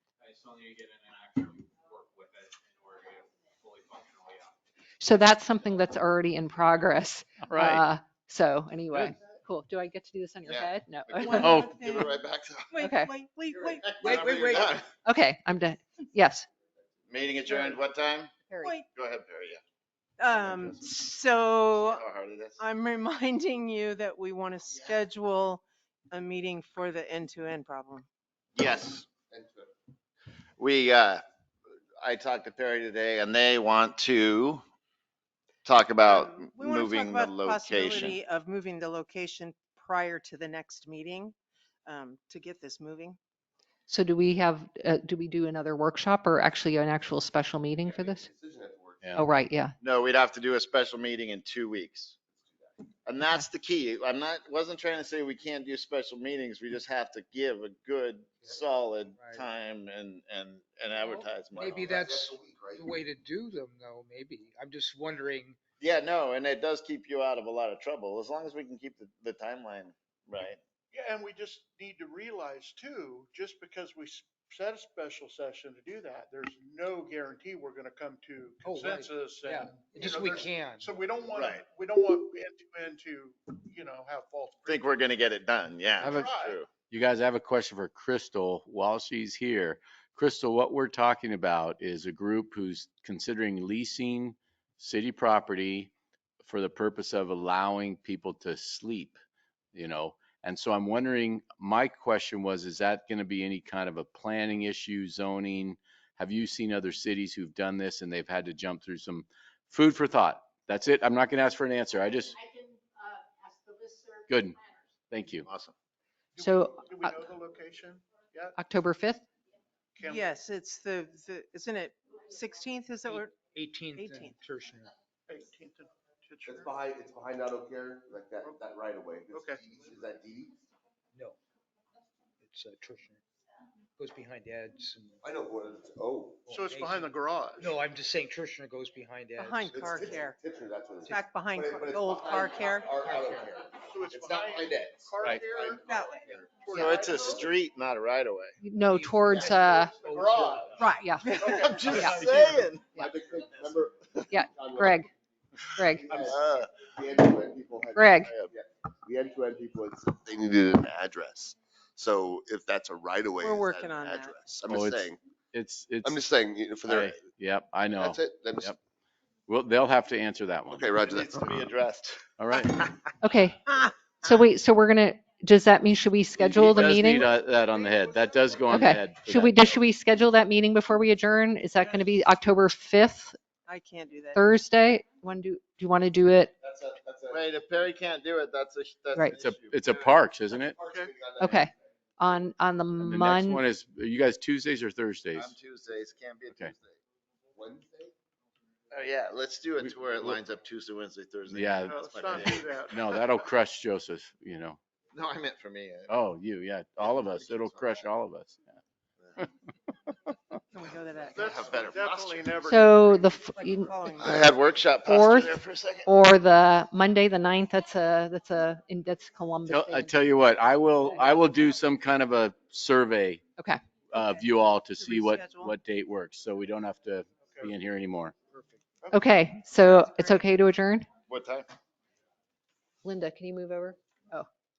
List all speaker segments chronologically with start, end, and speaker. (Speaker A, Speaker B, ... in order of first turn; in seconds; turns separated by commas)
Speaker A: 0.2-4.5, Speaker B: 5.0-11.7, Speaker C: 7.4-7.8, Speaker D: 10.5-12.8, Speaker E: 11.2-14.2, Speaker C: 11.4-11.7, Speaker B: 12.8-13.1, Speaker F: 13.5-14.8, Speaker D: 14.0-14.9, Speaker G: 14.1-14.4, Speaker B: 15.0-16.5, Speaker D: 17.1-18.3, Speaker B: 18.5-18.8, Speaker D: 18.9-19.6, Speaker E: 20.2-22.0, Speaker D: 20.4-20.8, Speaker D: 21.7-22.6, Speaker E: 22.6-28.1, Speaker D: 28.6-29.1, Speaker F: 29.3-29.7, Speaker D: 30.6-31.2, Speaker D: 32.0-34.6, Speaker D: 35.6-38.2, Speaker E: 36.0-41.4, Speaker E: 41.9-43.2, Speaker B: 43.9-48.2, Speaker F: 47.9-49.3, Speaker C: 49.0-49.3, Speaker B: 49.2-49.8, Speaker D: 49.8-52.2, Speaker F: 52.3-52.8, Speaker D: 53.0-62.2, Speaker G: 59.1-59.4, Speaker G: 61.5-65.6, Speaker F: 61.6-63.0, Speaker D: 65.8-70.6, Speaker H: 70.9-85.0, Speaker G: 78.7-80.9, Speaker D: 81.3-81.6, Speaker D: 84.7-86.7, Speaker H: 86.0-86.6, Speaker C: 86.0-86.3, Speaker C: 86.9-95.9, Speaker C: 96.4-99.2, Speaker C: 99.7-112.4, Speaker C: 114.3-114.6, Speaker C: 115.1-115.5, Speaker D: 115.5-115.7, Speaker H: 116.4-118.6, Speaker B: 116.4-117.1, Speaker B: 118.6-119.2, Speaker H: 120.0-120.3, Speaker E: 120.1-123.3, Speaker G: 123.1-124.9, Speaker E: 123.9-124.4, Speaker H: 125.3-126.7, Speaker F: 126.5-130.5, Speaker H: 129.3-129.6, Speaker G: 131.1-131.4, Speaker G: 132.4-133.2, Speaker G: 134.0-135.2, Speaker F: 135.2-136.5, Speaker H: 136.5-137.8, Speaker G: 136.5-139.8, Speaker E: 139.4-140.4, Speaker F: 139.7-146.4, Speaker E: 141.1-142.9, Speaker H: 143.8-147.5, Speaker E: 145.8-146.3, Speaker D: 146.7-148.6, Speaker F: 147.1-147.5, Speaker B: 148.6-150.0, Speaker G: 148.9-150.6, Speaker F: 149.7-150.8, Speaker H: 150.0-152.8, Speaker E: 150.8-151.8, Speaker B: 150.9-152.2, Speaker D: 151.4-153.1, Speaker F: 153.0-155.1, Speaker B: 154.3-155.1, Speaker B: 155.8-156.2, Speaker F: 155.8-165.2, Speaker D: 156.1-156.8, Speaker B: 157.9-158.3, Speaker D: 158.2-158.5, Speaker E: 163.4-164.3, Speaker C: 164.7-166.2, Speaker F: 166.0-167.2, Speaker C: 166.8-168.8, Speaker F: 168.0-168.7, Speaker C: 169.5-171.0, Speaker F: 170.7-171.6, Speaker D: 171.0-172.2, Speaker C: 172.4-172.8, Speaker B: 173.2-173.7, Speaker B: 174.2-177.3, Speaker C: 176.4-179.7, Speaker B: 178.7-183.4, Speaker E: 183.7-184.4, Speaker B: 184.3-186.5, Speaker F: 186.6-187.6, Speaker D: 187.3-189.8, Speaker C: 189.4-190.8, Speaker F: 189.8-191.8, Speaker B: 191.4-193.6, Speaker C: 193.0-195.5, Speaker D: 195.3-197.0, Speaker F: 197.5-198.1, Speaker D: 198.9-202.7, Speaker C: 201.5-204.8, Speaker H: 201.8-203.0, Speaker D: 205.1-206.1, Speaker C: 206.1-208.8, Speaker D: 207.0-207.9, Speaker C: 210.1-210.3, Speaker E: 210.7-211.4, Speaker D: 211.3-212.6, Speaker H: 211.3-213.5, Speaker B: 212.7-214.0, Speaker E: 213.6-214.5, Speaker D: 214.1-216.1, Speaker B: 215.0-220.5, Speaker C: 219.7-223.4, Speaker B: 221.0-221.6, Speaker C: 224.1-228.3, Speaker E: 224.2-225.7, Speaker H: 227.5-227.7, Speaker G: 228.5-228.8, Speaker B: 229.1-231.1, Speaker E: 230.1-230.4, Speaker D: 231.3-231.7, Speaker B: 233.0-234.5